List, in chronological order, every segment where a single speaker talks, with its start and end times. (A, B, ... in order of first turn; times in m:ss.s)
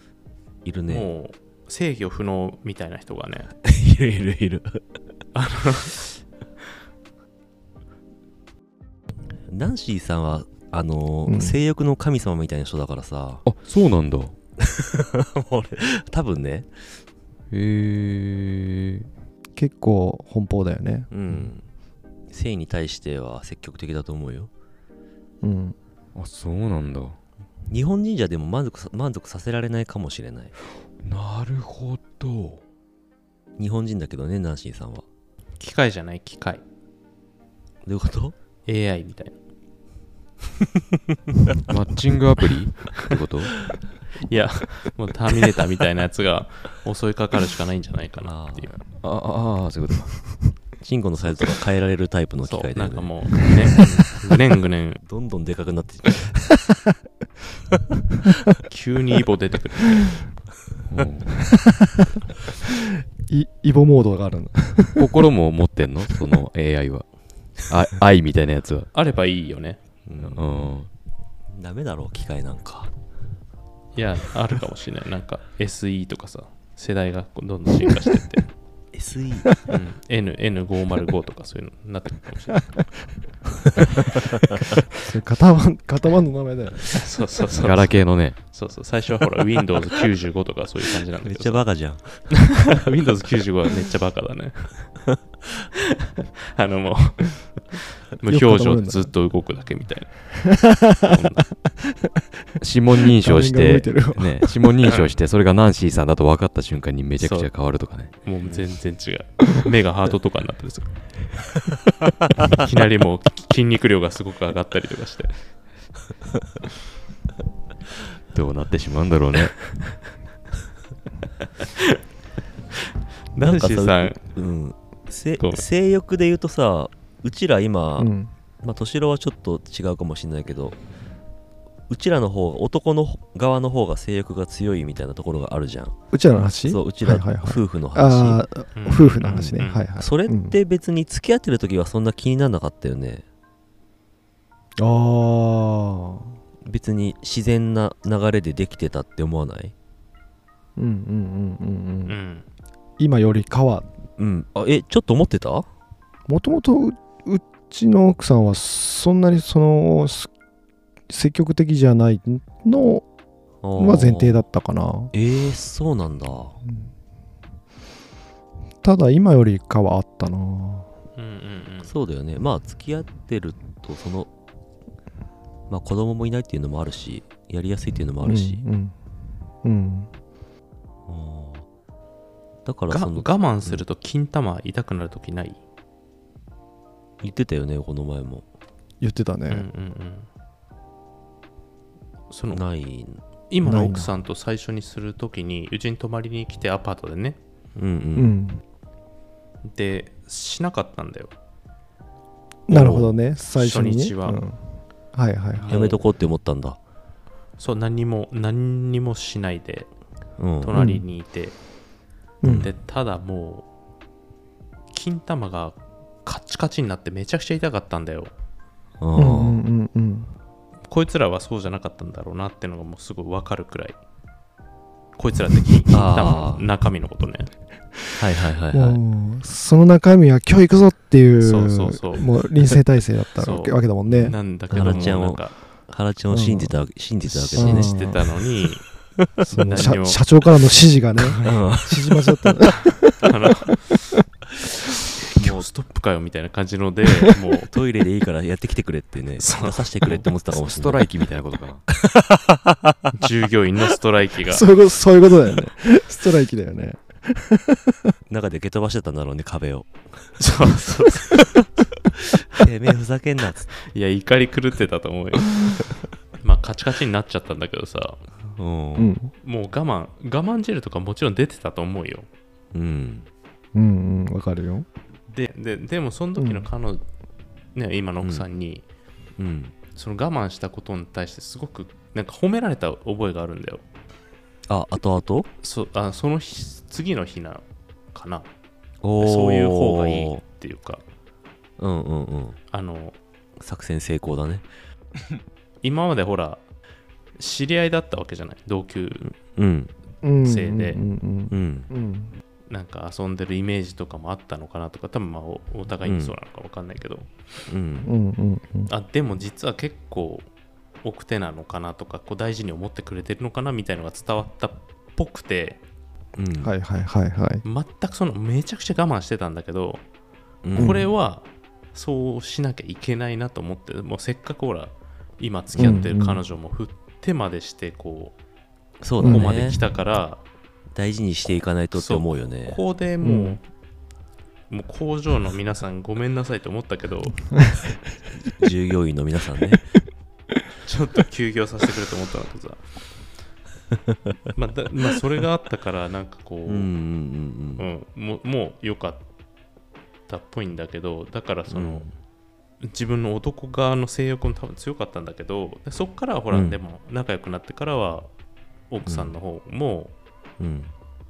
0:00.6-0:01.1 A
0:00.9-0:03.5 B
0:03.6-0:04.8 A
0:05.3-0:06.2 B
0:09.5-0:13.4 A
0:11.2-0:11.6 C
0:13.4-0:14.3 D
0:14.6-0:16.7 A
0:17.5-0:19.1 D
0:19.6-0:21.1 C
0:21.1-0:21.6 A
0:22.3-0:24.5 A
0:25.4-0:25.7 C
0:26.2-0:27.2 D
0:27.7-0:30.5 A
0:31.0-0:32.6 D
0:33.6-0:35.0 A
0:35.6-0:36.6 B
0:37.8-0:38.3 A
0:38.6-0:39.4 B
0:41.7-0:43.6 D
0:44.2-0:48.7 B
0:48.2-0:48.7 A
0:48.7-0:50.4 D
0:50.8-0:53.1 A
0:52.4-0:55.0 B
0:55.0-0:56.5 A
0:58.7-1:00.2 B
1:00.9-1:01.5 D
1:03.3-1:05.1 C
1:05.0-1:08.9 D
1:08.9-1:09.8 B
1:10.0-1:10.5 A
1:10.2-1:10.9 D
1:11.5-1:12.9 A
1:13.9-1:18.5 B
1:18.9-1:19.5 A
1:19.7-1:22.7 B
1:25.0-1:26.9 C
1:26.9-1:31.8 B
1:27.5-1:28.4 D
1:31.2-1:32.7 A
1:32.7-1:35.0 B
1:36.5-1:40.4 B
1:38.2-1:39.1 C
1:40.5-1:41.2 C
1:41.1-1:41.5 B
1:42.6-1:48.1 D
1:43.2-1:44.7 C
1:44.8-1:45.2 B
1:47.2-1:47.5 B
1:48.2-1:51.0 B
1:52.4-1:55.4 B
1:58.3-1:59.7 D
2:01.6-2:02.0 B
2:03.3-2:04.2 B
2:03.4-2:08.1 A
2:05.4-2:05.6 B
2:08.0-2:08.3 C
2:08.6-2:10.8 A
2:11.9-2:15.9 A
2:16.1-2:20.6 C
2:16.6-2:18.4 A
2:18.8-2:19.9 B
2:19.3-2:23.2 A
2:24.8-2:26.4 C
2:26.6-2:29.7 A
2:30.8-2:32.2 C
2:32.0-2:32.5 B
2:33.0-2:33.9 C
2:34.2-2:35.7 A
2:36.3-2:40.3 C
2:41.1-2:43.0 C
2:43.6-2:44.4 A
2:43.7-2:45.1 C
2:45.1-2:46.5 A
2:48.8-2:50.9 C
2:51.2-2:51.9 B
2:51.8-2:54.3 A
2:55.7-2:58.6 A
2:58.2-2:58.9 C
2:59.6-3:00.1 C
3:01.1-3:01.7 A
3:02.6-3:03.8 A
3:02.9-3:05.6 B
3:07.2-3:08.4 A
3:09.0-3:09.7 C
3:09.5-3:10.3 B
3:12.3-3:12.6 B
3:12.5-3:13.2 A
3:13.5-3:17.4 B
3:13.6-3:14.1 C
3:17.8-3:18.3 A
3:18.2-3:18.6 C
3:19.7-3:21.3 B
3:22.7-3:26.0 C
3:22.7-3:23.2 A
3:23.5-3:24.4 B
3:25.5-3:26.0 B
3:25.7-3:26.8 A
3:27.6-3:29.9 B
3:30.4-3:30.8 A
3:30.6-3:31.6 B
3:30.7-3:31.0 C
3:32.4-3:32.7 C
3:32.4-3:32.7 A
3:32.6-3:33.7 B
3:34.9-3:38.3 B
3:39.0-3:39.6 A
3:39.1-3:40.3 C
3:40.9-3:44.0 B
3:45.2-3:47.5 B
3:45.9-3:46.7 A
3:48.2-3:49.0 A
3:48.7-3:55.3 C
3:51.4-3:52.8 B
3:53.4-3:55.5 B
3:54.0-3:58.2 A
3:56.3-3:56.8 C
3:57.4-3:58.2 C
3:57.5-3:58.9 B
3:59.4-4:03.3 C
3:59.6-4:00.2 B
4:01.3-4:01.5 B
4:01.4-4:02.5 A
4:03.2-4:03.9 B
4:05.3-4:07.7 B
4:07.7-4:11.1 A
4:09.4-4:10.2 B
4:10.5-4:11.8 D
4:11.9-4:13.1 A
4:13.2-4:14.7 B
4:14.5-4:17.9 C
4:18.3-4:20.0 A
4:20.4-4:21.6 B
4:22.4-4:23.8 A
4:23.9-4:25.6 B
4:26.4-4:28.2 B
4:28.6-4:29.1 A
4:29.0-4:29.3 C
4:29.4-4:32.3 B
4:32.7-4:33.3 A
4:33.7-4:34.8 C
4:35.3-4:37.0 B
4:36.4-4:36.7 C
4:37.7-4:38.8 B
4:38.2-4:38.5 A
4:39.4-4:39.8 A
4:39.9-4:43.8 B
4:44.7-4:45.5 A
4:45.6-4:48.5 B
4:49.0-4:50.4 A
4:49.2-4:51.0 B
4:51.8-4:52.6 A
4:52.7-4:53.2 B
4:53.6-4:54.6 A
4:55.8-4:56.6 B
4:57.4-4:59.3 B
4:59.5-4:59.9 A
5:00.2-5:02.3 C
5:00.4-5:01.0 B
5:01.5-5:01.9 A
5:02.7-5:07.3 B
5:06.0-5:06.4 A
5:07.7-5:08.1 A
5:08.0-5:08.9 C
5:08.9-5:10.5 B
5:11.0-5:15.8 B
5:16.4-5:16.7 A
5:16.6-5:17.6 C
5:17.6-5:20.0 B
5:20.6-5:21.0 A
5:20.7-5:28.4 B
5:20.8-5:21.1 C
5:25.7-5:26.0 A
5:25.7-5:26.4 C
5:29.0-5:29.8 A
5:29.2-5:30.4 B
5:29.2-5:29.6 C
5:30.9-5:32.8 A
5:31.9-5:33.6 B
5:33.2-5:33.6 C
5:34.7-5:37.6 B
5:38.4-5:39.9 A
5:40.8-5:42.8 B
5:44.5-5:46.9 B
5:46.6-5:47.8 A
5:47.8-5:49.2 B
5:50.3-5:52.1 B
5:51.7-5:52.1 A
5:52.8-5:58.3 B
5:56.5-5:56.8 A
5:58.9-6:00.1 B
5:59.0-5:59.4 A
6:00.6-6:00.9 A